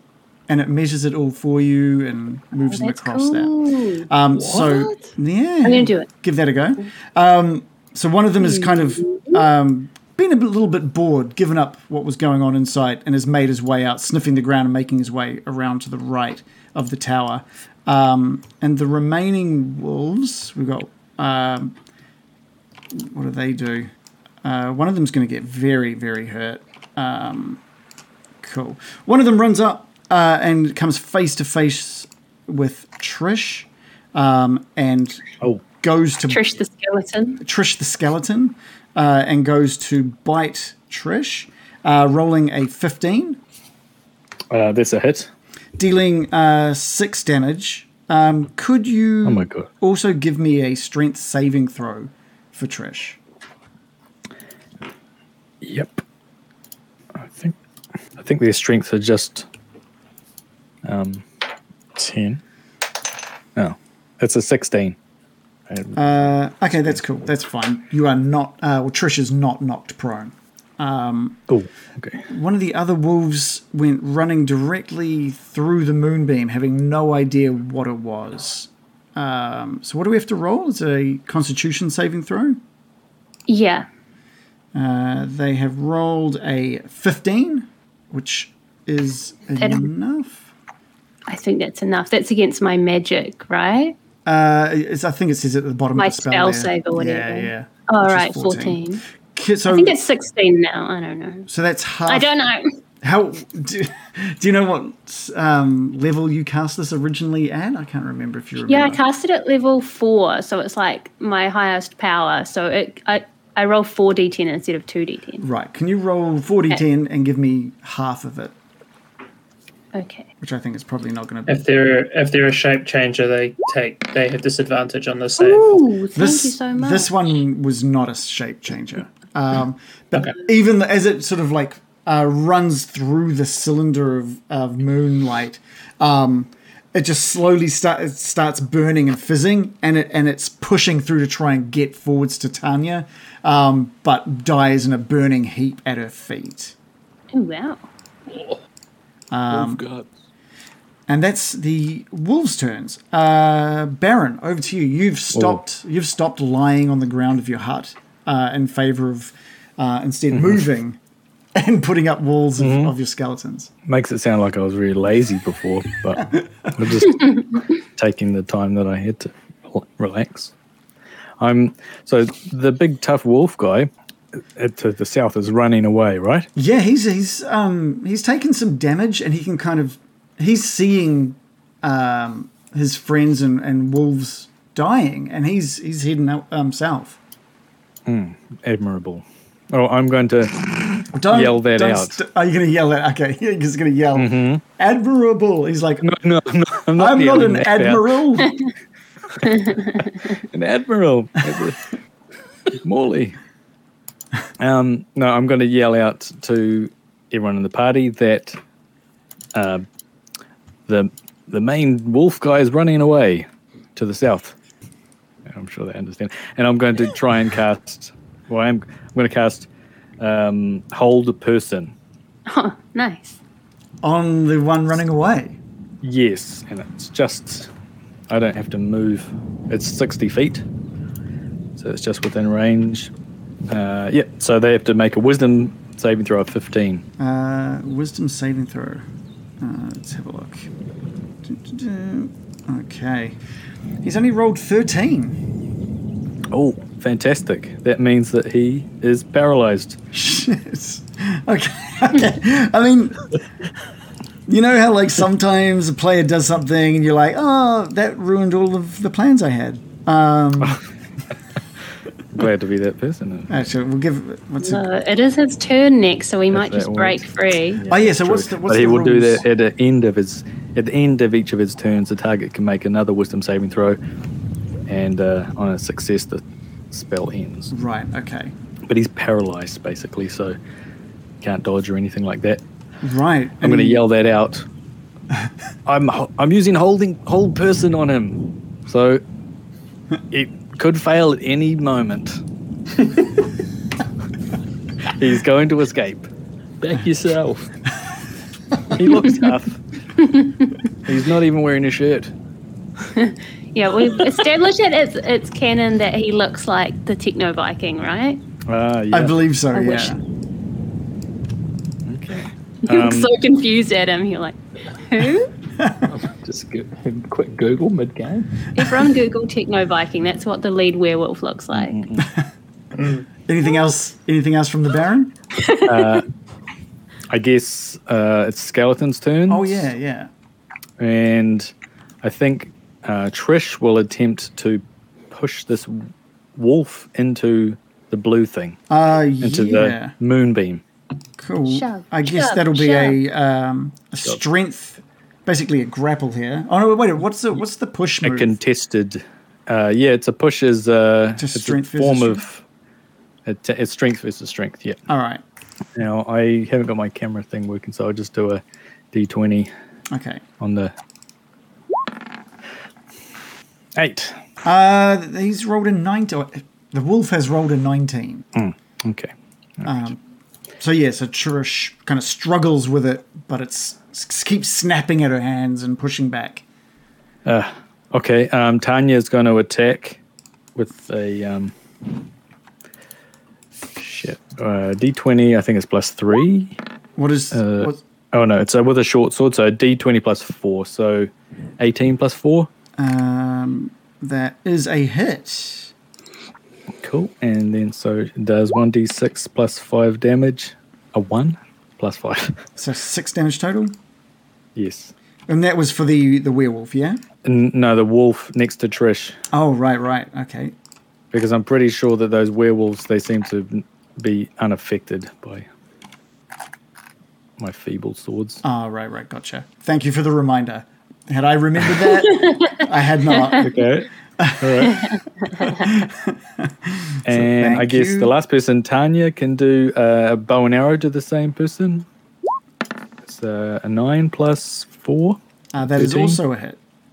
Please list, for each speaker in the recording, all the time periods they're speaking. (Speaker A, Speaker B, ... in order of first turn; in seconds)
Speaker A: 0.5-3.5, 4.1-21.8, 22.9-23.9, 24.4-27.6, 28.4-35.2, 35.8-36.4, 37.4-43.4, 45.8-53.2, 65.9-71.4, 72.3-82.6, 84.7-90.5, 94.2-100.0, 101.5-102.3, 103.0-109.0, 115.4-118.5, 120.4-121.7, 126.1-146.7, 149.3-149.8, 151.1-161.0, 161.5-163.7, 166.2-166.7, 176.6-187.2, 191.1-196.1, 196.9-198.5, 224.0-225.6, 237.2-239.1, 239.6-240.7, 241.4-243.4, 244.0-245.4, 250.1-253.3, 254.5-260.8, 263.5-264.8, 267.9-269.4, 277.7-278.5, 283.0-284.0, 309.1-310.2, 315.8-316.1, 323.5-325.3, 329.5-330.3, 338.9-340.1, 341.4-348.6, 351.4-352.4, 355.1-355.4, 360.1-360.4, 364.6-368.4, 369.8-370.2, 370.8-376.6, 387.1-388.0, 393.0-395.9, 402.8-403.9, 405.5-407.2, 409.5-410.7, 418.6-423.7, 424.4-424.9, 425.6-428.3, 435.7-436.8
Speaker B: 2.7-4.1, 5.6-6.1, 8.4-9.4, 36.3-37.4, 83.5-83.9, 89.6-89.9, 91.3-93.9, 96.0-99.0, 99.7-101.5, 102.1-102.7, 108.6-115.4, 119.9-120.3, 125.4-127.1, 147.3-147.8, 199.5-199.8, 222.5-223.4, 264.6-267.8, 300.2-300.7, 303.1-308.4, 309.7-310.1, 312.9-315.5, 318.7-322.0, 325.6-326.1, 341.7-343.2, 425.0-425.8
Speaker C: 4.3-5.1, 148.3-148.6, 149.5-150.1, 296.8-297.7, 316.1-318.6
Speaker D: 44.5-45.3, 49.2-49.7, 55.6-56.0, 57.1-57.5, 58.2-59.5, 60.8-61.2, 61.9-62.4, 63.5-65.0, 65.7-66.2, 71.5-72.2, 155.3-155.6, 160.3-160.6, 162.6-162.9, 163.9-170.5, 171.4-173.9, 174.6-176.5, 188.1-192.2, 194.1-194.6, 196.0-198.1, 200.5-201.9, 202.7-203.4, 204.6-208.6, 209.5-209.8, 210.9-214.5, 215.5-219.7, 220.2-221.9, 226.0-227.7, 228.3-230.6, 231.8-233.1, 233.7-237.0, 246.5-250.0, 262.3-263.6, 266.5-267.3, 267.8-274.0, 274.9-276.4, 276.9-277.7, 278.9-280.6, 281.4-282.6, 283.6-284.6, 285.9-289.2, 290.3-292.4, 295.1-296.3, 298.9-299.8, 301.0-302.3, 308.7-309.3, 312.0-313.3, 321.7-322.3, 325.8-326.2, 327.3-329.9, 331.0-331.7, 332.2-338.8, 339.4-340.8, 348.2-352.6, 353.4-355.0, 355.9-358.6, 359.1-359.7, 360.6-360.9, 363.9-364.4, 368.6-370.0, 377.4-380.2, 380.8-381.7, 383.9-386.8, 387.5-392.7, 397.0-402.6, 404.8-405.1, 407.4-409.4, 411.3-415.6, 417.6-418.6, 423.6-425.0, 427.2-432.1, 433.2-435.4, 435.9-436.4
Speaker E: 121.5-125.8, 322.9-323.2